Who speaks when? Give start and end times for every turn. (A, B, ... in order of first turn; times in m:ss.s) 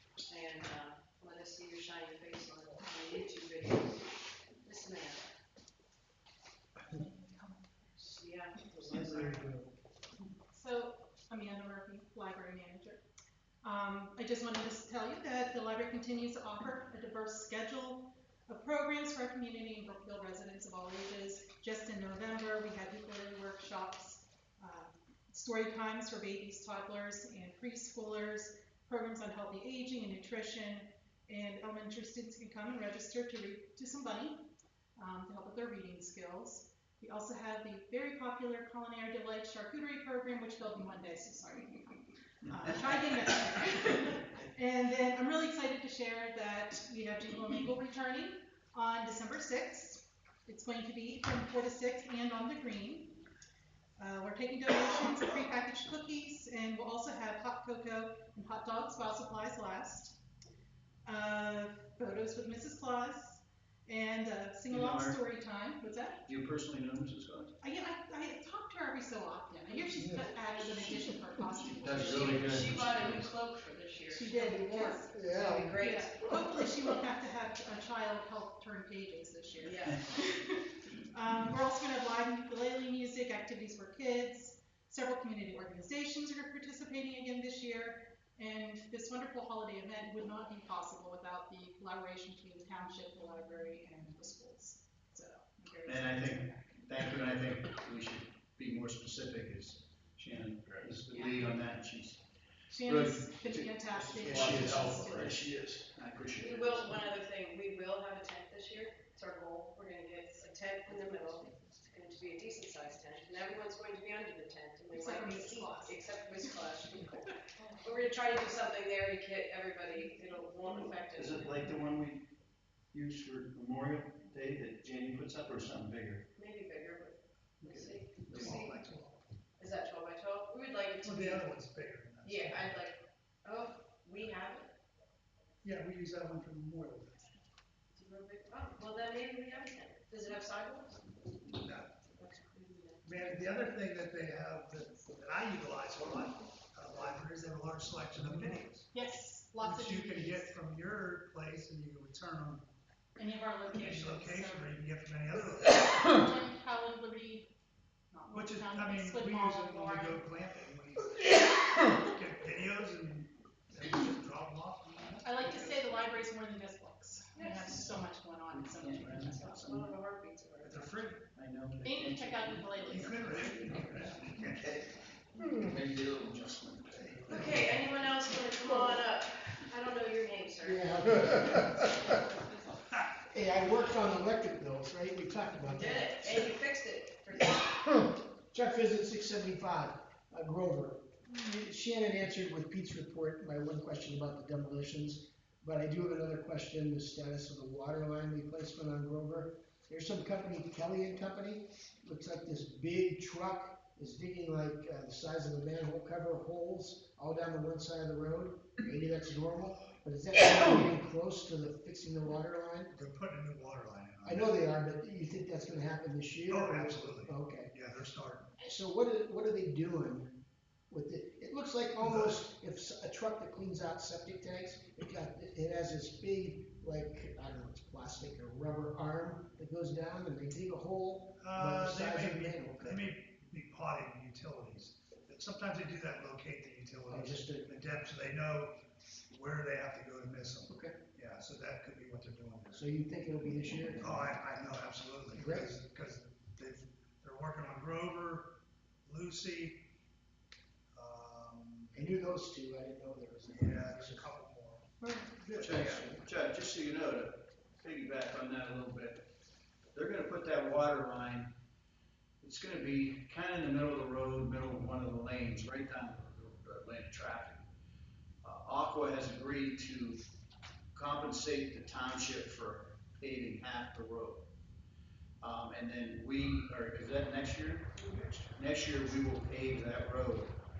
0:00.2-0:04.1 A
0:04.6-0:05.3 A
0:06.9-0:08.0 B
0:08.0-0:09.5 A
0:08.9-0:09.7 C
0:10.4-0:13.0 B
0:13.6-0:34.4 B
0:35.0-0:53.2 B
0:42.4-0:42.7 D
0:54.0-1:00.2 B
1:01.0-1:06.3 B
1:04.7-1:05.2 D
1:06.3-1:07.5 D
1:07.6-1:12.8 B
1:11.6-1:13.3 D
1:12.0-1:16.3 A
1:14.1-1:36.8 B
1:15.1-1:15.7 E
1:19.6-1:20.0 A
1:35.8-1:42.2 D
1:41.1-1:41.4 A
1:42.7-1:45.4 B
1:42.8-1:47.0 D
1:46.4-1:57.2 A
1:54.9-1:56.7 B
1:57.2-1:57.8 B
1:57.8-2:01.6 A
2:00.7-2:02.2 D
2:02.9-2:06.2 D
2:06.4-2:08.8 A
2:07.6-2:08.6 D
2:08.3-2:09.2 C
2:09.6-2:11.5 A
2:11.0-2:12.8 C
2:12.2-2:14.7 A
2:15.6-2:17.3 C
2:17.9-2:21.2 A
2:21.5-2:22.0 C
2:22.1-2:23.2 A
2:23.0-2:28.9 C
2:28.9-2:30.6 B
2:29.6-2:32.6 C
2:33.2-2:34.8 B
2:33.8-2:36.1 C
2:35.6-2:37.5 B
2:38.1-2:40.3 B
2:38.3-2:45.2 C
2:45.2-2:49.7 B
2:47.3-2:47.8 A
2:48.5-2:49.9 D
2:49.3-2:50.9 A
2:50.6-2:51.2 C
2:51.3-2:57.8 D
2:51.8-2:53.3 B
2:52.9-2:54.8 C
2:57.3-3:01.5 A
2:57.3-2:57.6 C
2:58.6-2:59.0 E
3:00.6-3:01.9 E
3:03.2-3:06.5 E
3:05.6-3:07.8 A
3:07.8-3:32.9 E
3:32.9-3:34.5 C
3:34.2-3:37.7 E
3:36.5-3:38.5 C
3:38.6-3:40.3 E
3:40.9-3:53.1 E
3:42.0-3:42.4 C
3:51.4-3:58.7 C
3:57.1-3:57.6 E
3:59.3-4:02.9 C
4:00.7-4:00.9 E
4:02.7-4:04.2 E
4:04.0-4:08.4 C
4:05.3-4:05.7 E
4:09.0-4:09.8 C
4:10.9-4:12.0 C
4:11.9-4:14.3 E
4:13.4-4:14.9 C
4:15.0-4:15.3 B
4:15.2-4:16.2 E
4:15.6-4:19.2 D
4:19.9-4:21.5 D
4:22.4-4:27.6 D
4:28.4-4:30.2 D
4:30.9-4:34.4 D
4:35.4-4:37.9 D
4:38.2-4:38.4 C
4:38.5-4:40.5 D